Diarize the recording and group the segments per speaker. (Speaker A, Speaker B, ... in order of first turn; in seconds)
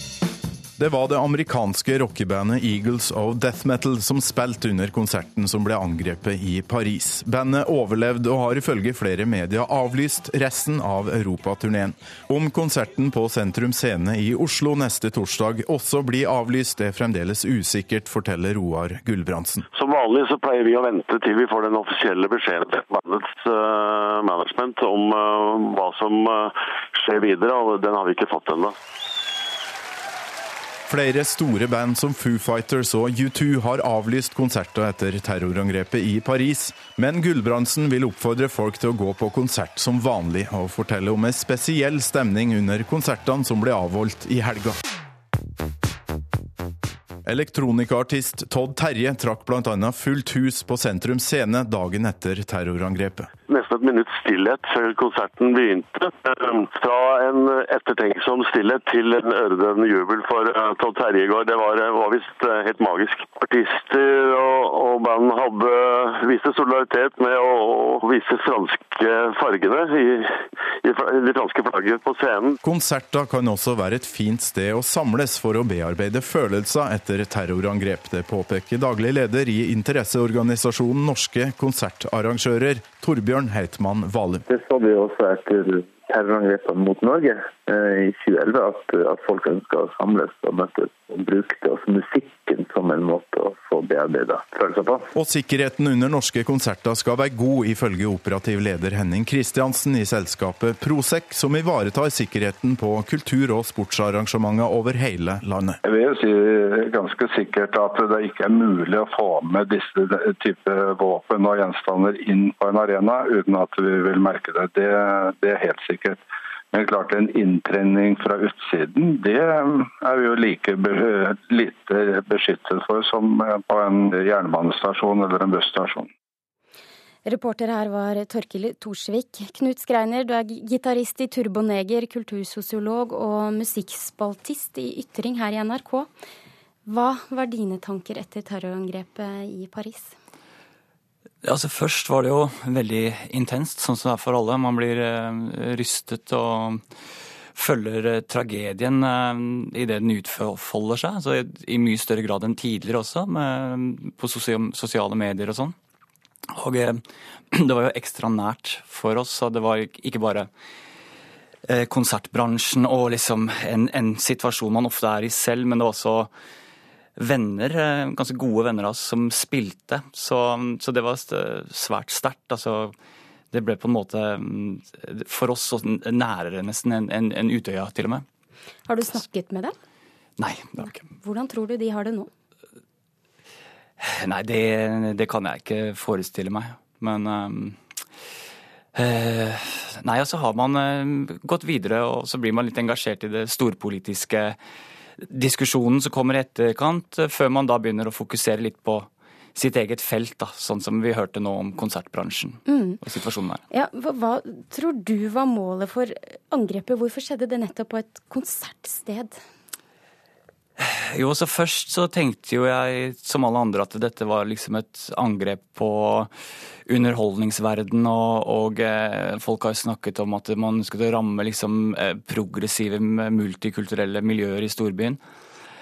Speaker A: 0.8-19.6, 30.9-44.8, 47.2-53.3, 72.6-84.4, 95.1-105.8
Speaker B: 19.7-28.7, 53.5-72.6
Speaker C: 84.5-95.1
Speaker D: 105.8-126.1
Speaker E: 127.2-136.1, 136.8-140.2, 178.9-179.7, 180.8-182.3, 202.7-203.0, 203.7-209.4
Speaker F: 141.4-146.8, 147.5-155.7, 156.5-160.5, 161.7-166.3, 167.2-172.9, 173.5-178.2, 180.4-181.0, 184.0-187.8, 188.9-194.6, 195.2-203.6, 210.8-216.3, 216.9-225.2